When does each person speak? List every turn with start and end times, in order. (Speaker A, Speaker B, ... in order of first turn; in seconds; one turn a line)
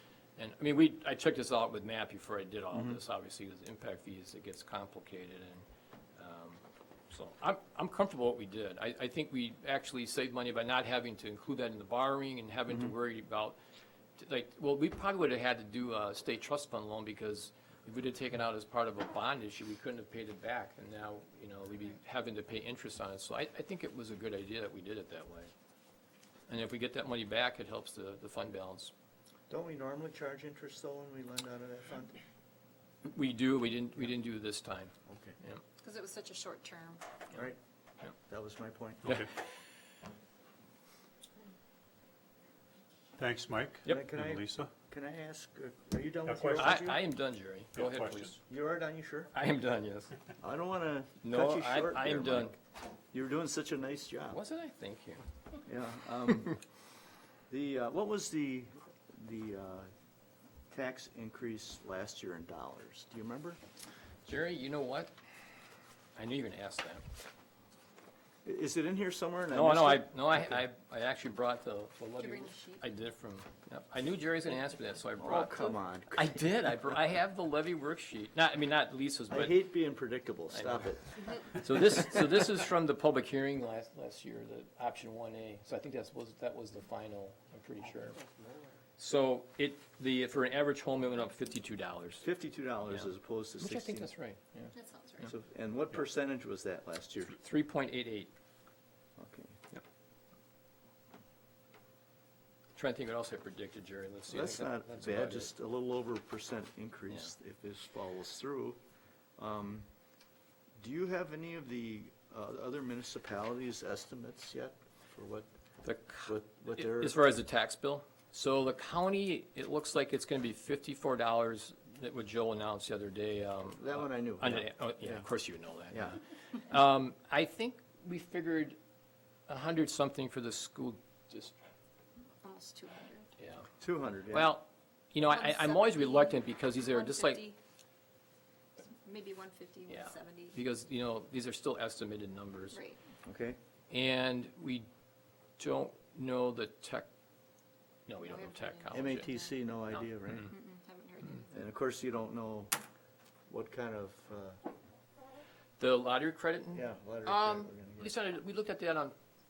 Speaker A: 0.4-5.6
Speaker A: 6.2-13.6
Speaker A: 14.2-25.5
Speaker A: 26.5-28.9
Speaker B: 29.5-32.2
Speaker A: 33.0-35.6
Speaker B: 35.1-35.4
Speaker C: 35.8-37.0
Speaker B: 37.3-37.6
Speaker B: 38.2-39.2
Speaker D: 43.2-44.7
Speaker B: 43.9-47.0
Speaker D: 46.2-46.8
Speaker A: 46.6-48.4
Speaker D: 47.7-48.3
Speaker B: 48.4-49.3
Speaker A: 49.3-50.1
Speaker B: 50.4-52.6
Speaker A: 51.2-52.5
Speaker B: 53.1-54.4
Speaker A: 54.3-55.2
Speaker B: 55.6-56.6
Speaker B: 57.5-59.9
Speaker B: 60.7-63.6
Speaker A: 64.2-65.1
Speaker A: 66.2-67.0
Speaker B: 68.4-70.6
Speaker A: 69.5-79.6
Speaker C: 72.2-72.8
Speaker B: 75.2-76.5
Speaker B: 79.3-81.2
Speaker A: 80.5-80.9
Speaker A: 81.5-88.2
Speaker A: 89.0-92.3
Speaker B: 92.2-94.1
Speaker A: 92.8-94.7
Speaker C: 94.7-95.3
Speaker B: 95.2-97.4
Speaker A: 97.3-98.3
Speaker B: 99.2-99.6
Speaker A: 102.7-105.5
Speaker B: 104.3-108.8
Speaker B: 109.4-109.8
Speaker B: 110.8-115.5
Speaker A: 115.8-128.8
Speaker B: 116.2-117.2
Speaker B: 123.8-125.3
Speaker B: 125.9-126.2
Speaker A: 129.5-131.5
Speaker C: 132.4-133.3
Speaker A: 133.4-133.7
Speaker B: 133.8-134.6
Speaker A: 134.3-137.4
Speaker C: 135.2-137.6
Speaker C: 138.9-140.6
Speaker A: 139.9-142.8
Speaker C: 142.7-143.0
Speaker B: 143.2-143.6
Speaker A: 143.9-144.9
Speaker A: 145.6-147.1
Speaker A: 148.1-149.3
Speaker C: 148.2-149.5
Speaker B: 148.9-150.5
Speaker C: 150.2-151.6
Speaker B: 151.5-152.7
Speaker B: 153.5-154.6
Speaker A: 155.8-159.1
Speaker B: 156.7-158.2